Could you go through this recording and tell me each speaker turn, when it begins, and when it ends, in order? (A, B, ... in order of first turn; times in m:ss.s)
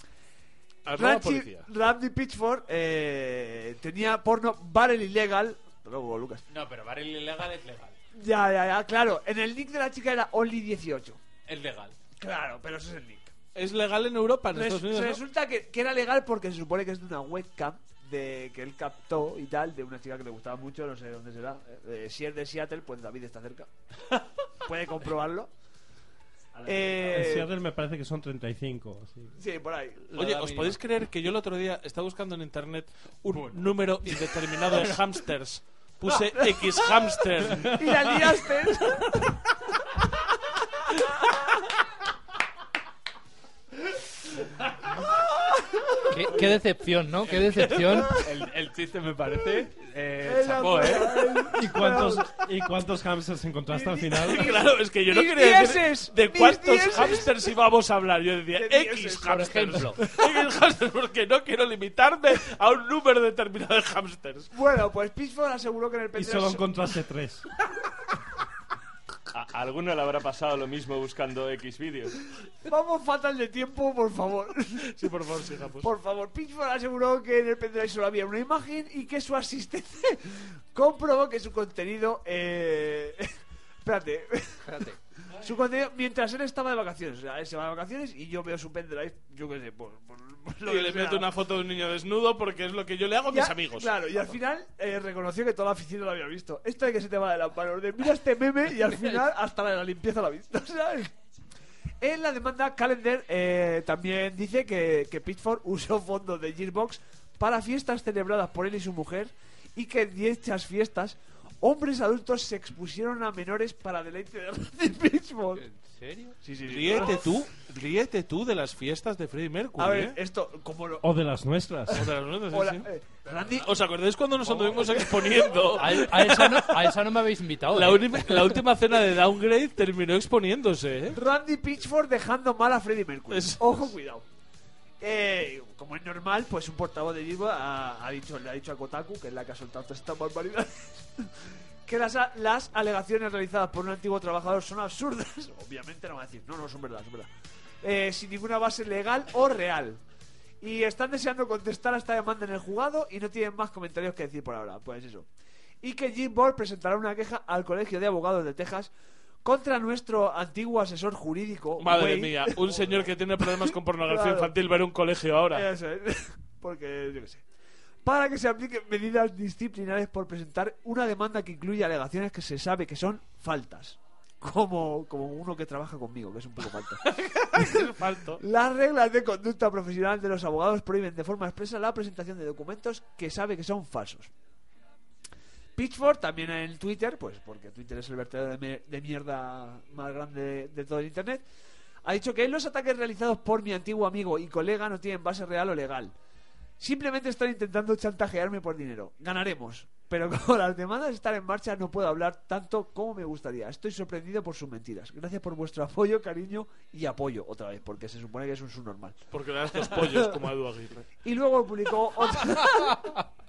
0:00.8-0:01.7 A
0:01.0-0:06.4 B
0:06.5-0:08.0 C
0:08.1-0:11.2 B
0:11.4-0:12.0 C
0:12.2-0:13.3 B
0:13.6-0:15.2 A
0:14.5-0:25.5 B
0:26.6-0:27.5 B
0:27.0-0:29.4 D
0:29.4-0:30.1 B
0:30.1-0:38.2 A
0:33.3-0:33.7 C
0:36.4-0:37.0 B
0:37.6-0:39.4 B
0:46.1-0:48.2 E
0:48.0-0:51.6 C
0:50.2-0:52.4 B
0:51.5-0:54.5 D
0:53.7-0:57.3 B
0:54.1-1:04.5 A
0:58.6-1:00.0 B
0:59.3-1:00.0 E
1:04.5-1:06.7 B
1:06.1-1:07.4 D
1:09.6-1:12.1 F
1:12.6-1:15.1 B
1:14.8-1:15.9 A
1:15.8-1:24.7 B
1:24.6-1:25.0 E
1:25.3-1:31.3 B
1:30.6-1:33.9 A
1:33.3-1:41.1 B
1:42.0-1:55.6 B
1:55.6-1:56.4 E
1:56.4-1:57.4 B
1:56.6-2:00.2 A
1:59.8-2:01.1 B
2:01.0-2:02.1 D
2:01.9-2:02.9 A
2:02.5-2:03.7 B
2:03.5-2:07.0 A
2:04.6-2:05.7 B
2:05.7-2:08.6 E
2:07.7-2:11.2 A
2:11.1-2:14.2 B
2:13.3-2:13.9 A
2:15.0-2:30.0 B
2:30.6-2:35.3 B
2:35.8-2:38.9 B
2:39.4-2:44.5 B
2:41.8-2:45.7 A
2:45.5-2:47.4 B
2:48.0-3:04.3 B
2:57.2-2:58.4 A
3:05.8-3:11.4 B
3:12.0-3:16.1 B
3:16.8-3:29.2 B
3:29.3-3:31.1 A
3:29.8-3:30.2 B
3:31.2-3:33.3 B